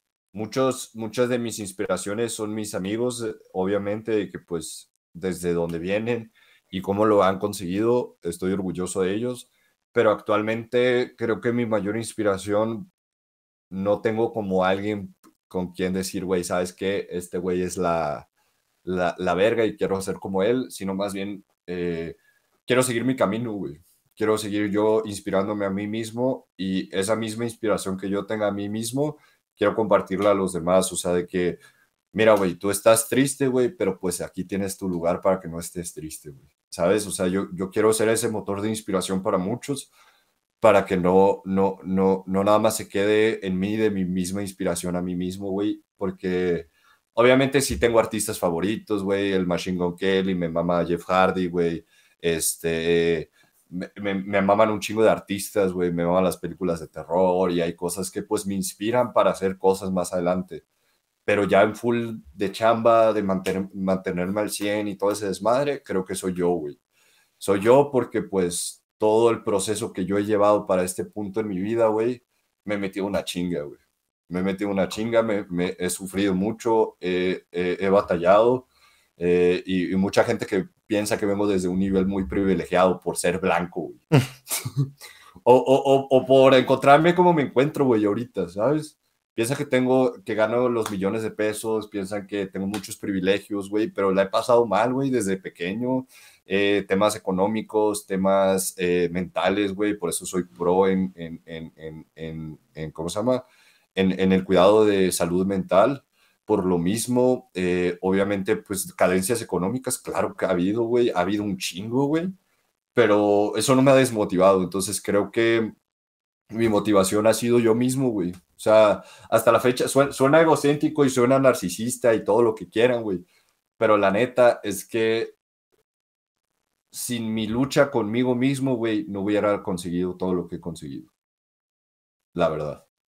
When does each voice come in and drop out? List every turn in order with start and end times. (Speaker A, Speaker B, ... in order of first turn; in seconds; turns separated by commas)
Speaker A: 0.3-12.9, Speaker A: 13.7-18.3, Speaker A: 18.8-31.6, Speaker A: 32.1-39.9, Speaker A: 40.6-60.6, Speaker A: 61.3-66.8, Speaker A: 67.4-84.0, Speaker A: 85.4-112.3, Speaker A: 113.0-115.7, Speaker A: 116.5-123.3, Speaker A: 123.8-125.3, Speaker A: 126.9-131.1, Speaker A: 132.3-132.8